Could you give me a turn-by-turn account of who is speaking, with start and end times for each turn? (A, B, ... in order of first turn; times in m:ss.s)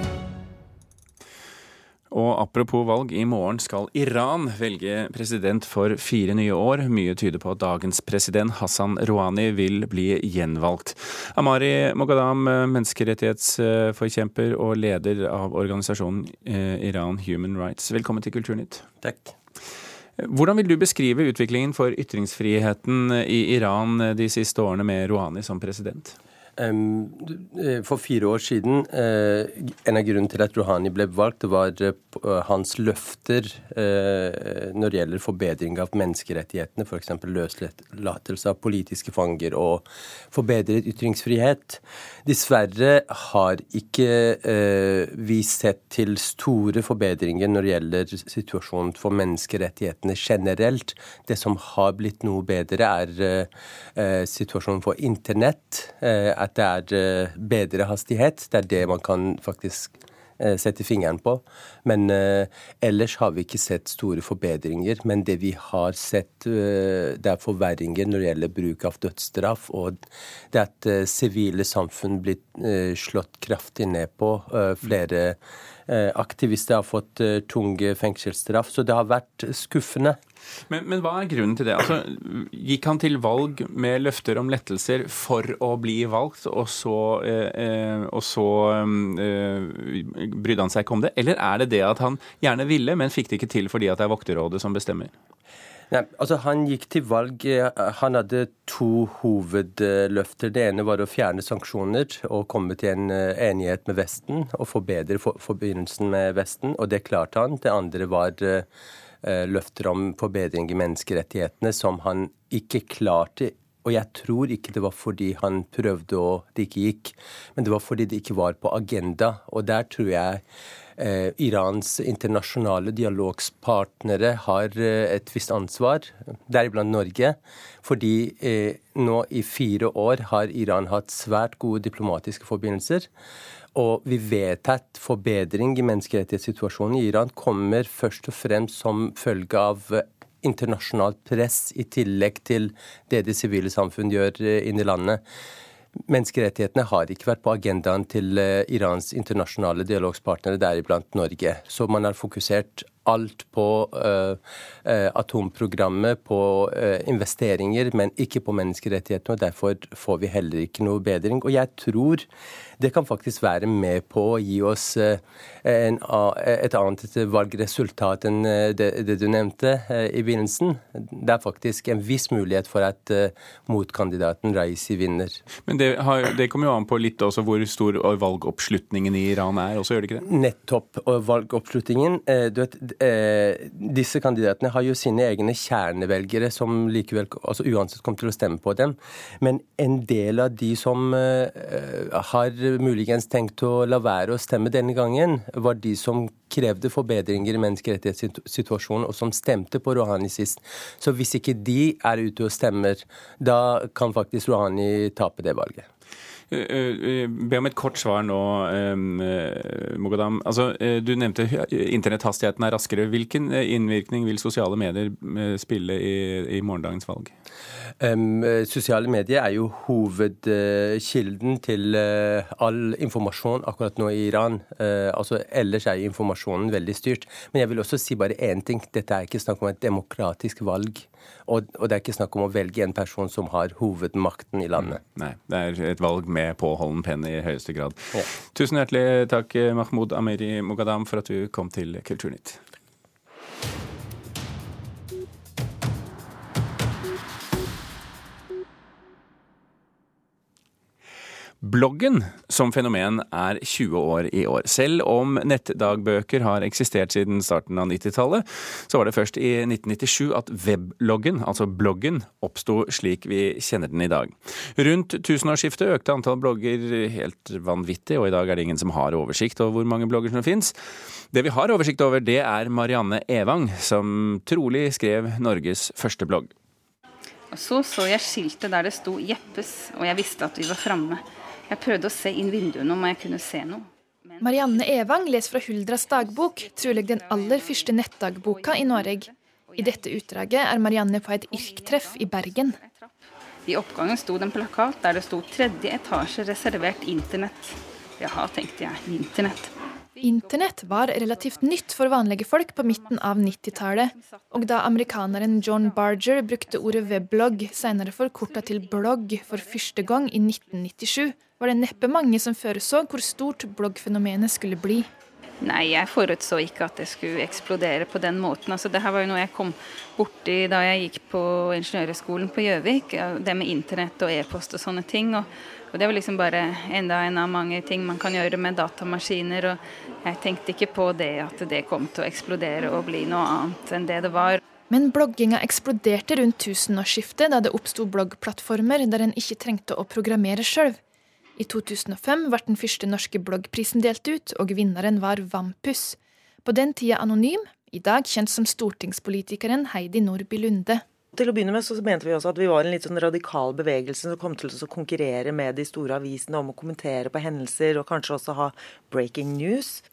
0:02.1-0:18.8 A
0:19.0-0:19.3 B
0:20.2-0:26.2 A
0:26.6-1:20.2 B
1:20.7-1:35.1 A
1:35.9-1:48.7 B
1:49.2-2:00.4 B
2:01.0-2:13.1 B
2:13.8-2:25.2 B
2:26.1-2:42.3 B
2:42.8-2:55.4 B
2:55.7-3:00.2 A
3:00.2-3:25.9 B
3:26.5-3:37.3 A
3:38.0-3:55.0 B
3:54.8-4:02.6 A
4:11.6-4:30.8 A
4:31.3-4:36.5 A
4:37.5-4:45.0 C
4:44.4-4:52.8 D
4:45.9-4:50.4 C
4:51.4-5:01.8 C
5:00.2-5:15.1 D
5:02.7-5:10.9 C
5:15.6-5:34.6 C
5:34.9-5:41.0 D
5:41.6-5:51.0 D
5:51.3-6:00.0 E